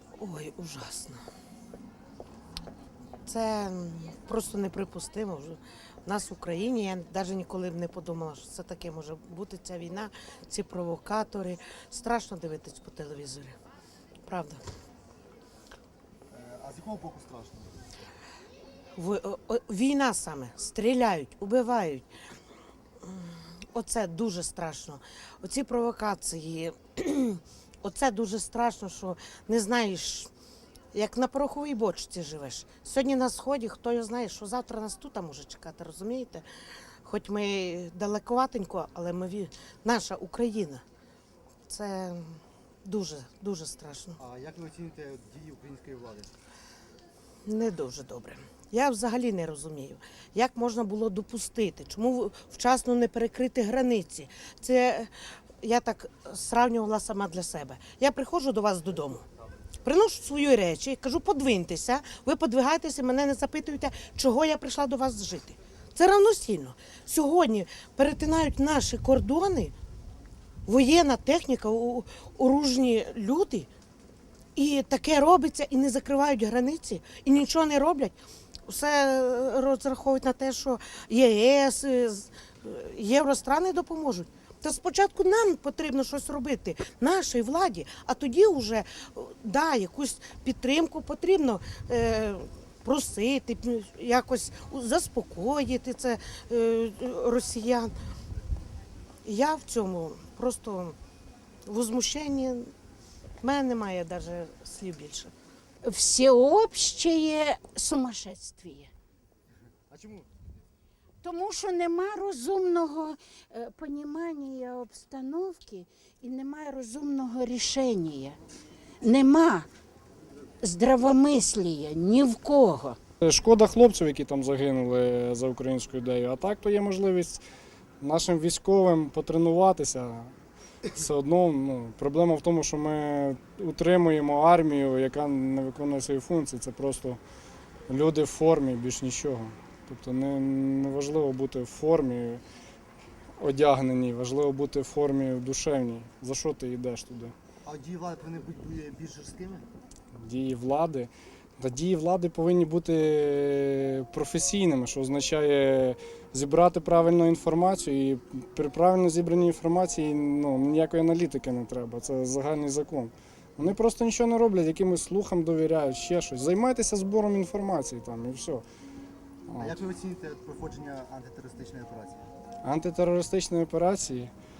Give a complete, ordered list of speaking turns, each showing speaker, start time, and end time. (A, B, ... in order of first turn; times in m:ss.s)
0:00.2-0:01.2 A
0:03.2-0:13.6 A
0:14.2-0:14.6 A
0:16.3-0:18.0 B
0:19.0-0:22.1 A
0:23.0-0:30.3 A
0:30.9-0:36.4 A
0:37.0-0:40.8 A
0:41.7-0:44.2 A
0:44.2-0:46.3 B
0:47.4-0:55.1 A
0:55.6-0:59.2 A
0:59.8-1:09.7 A
1:10.6-1:13.7 A
1:14.5-1:18.2 A
1:18.7-1:37.9 A
1:39.2-1:41.0 A
1:41.7-1:42.7 A
1:43.4-1:45.3 A
1:45.8-1:48.9 C
1:49.9-1:50.4 B
1:51.2-1:58.4 C
1:59.0-1:59.7 C
2:00.6-2:03.0 C
2:03.2-2:07.4 D
2:08.0-2:10.3 D
2:10.9-2:17.2 D
2:17.9-2:22.4 D
2:23.4-2:27.3 D
2:27.6-2:29.7 B
2:30.2-2:48.6 D
2:49.5-2:49.7 D
2:49.6-2:52.2 B
2:52.6-2:54.3 D